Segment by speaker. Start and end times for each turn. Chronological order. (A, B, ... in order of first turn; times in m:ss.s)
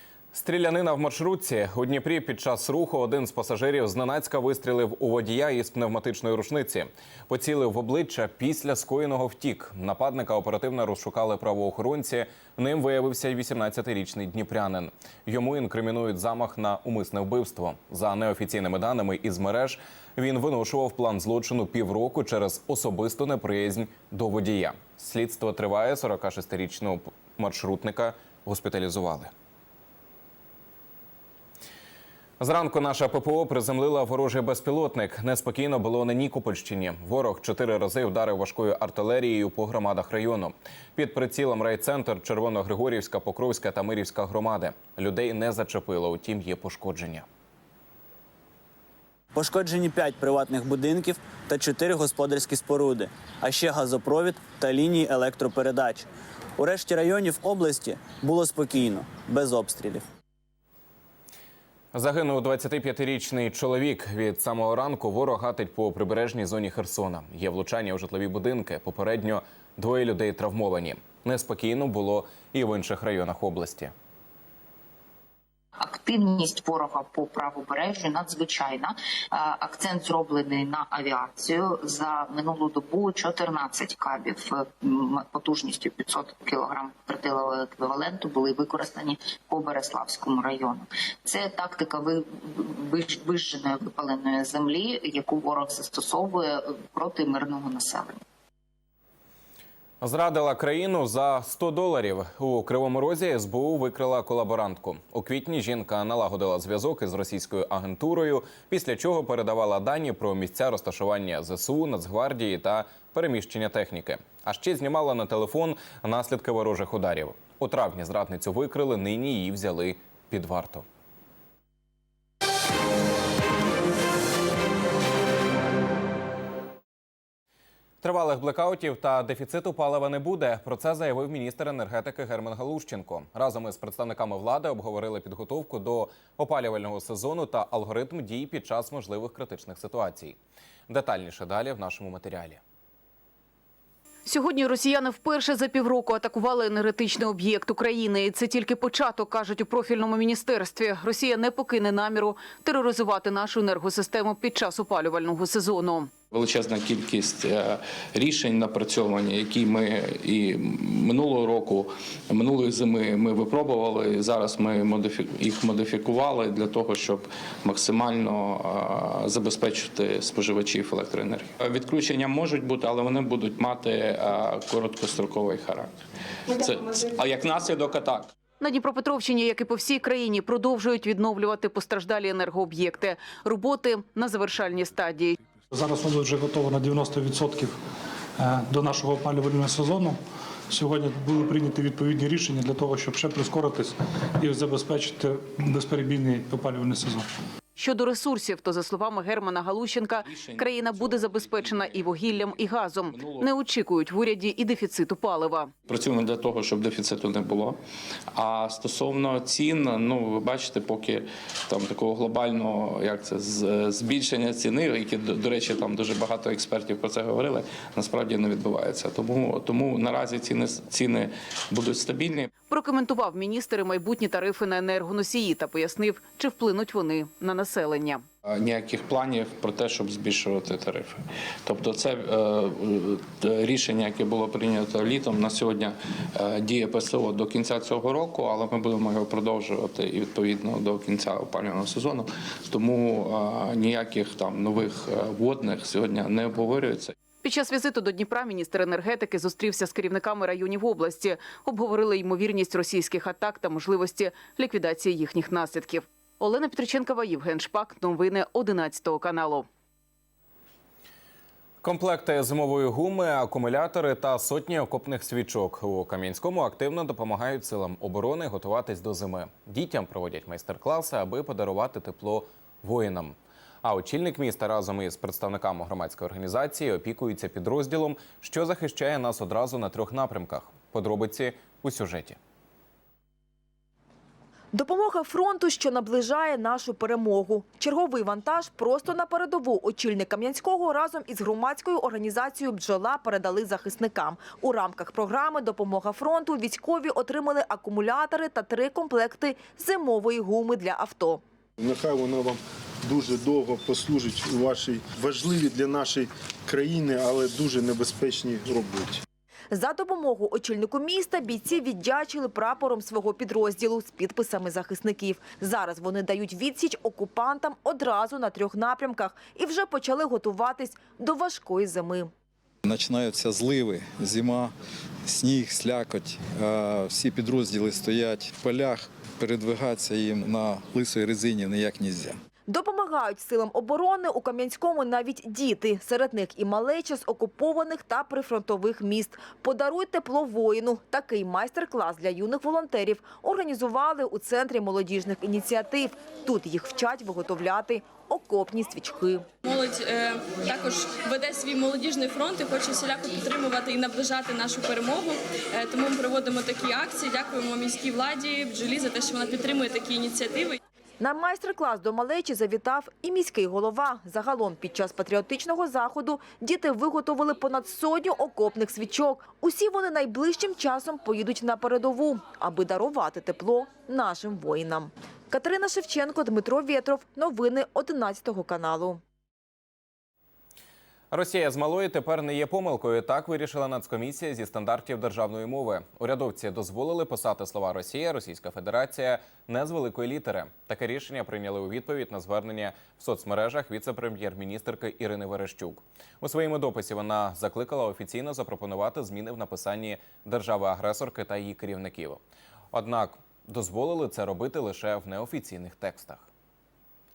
0:00.3-0:29.3 A
0:32.4-0:47.3 A
0:49.3-1:00.0 B
1:01.9-1:13.9 A
1:15.8-1:38.2 C
1:40.0-2:00.8 A
2:08.0-2:20.4 A
2:20.9-2:22.6 A
2:24.2-2:36.1 D
2:36.3-2:58.3 E
2:58.6-3:05.4 D
3:05.7-3:07.7 F
3:08.4-3:10.2 F
3:10.7-3:17.2 F
3:17.8-3:25.7 D
3:20.2-3:23.5 E
3:25.9-3:27.8 E
3:28.4-3:42.5 E
3:42.6-3:48.2 D
3:48.5-4:07.2 E
4:07.4-4:19.7 D
4:21.8-4:42.4 A
4:44.7-5:01.4 G
5:01.8-5:09.2 H
5:09.7-5:22.3 G
5:22.8-5:24.7 I
5:25.2-5:32.4 I
5:32.7-5:49.4 G
5:49.6-6:00.8 J
6:01.2-6:19.2 G
6:21.3-6:42.4 A
6:42.9-6:46.5 A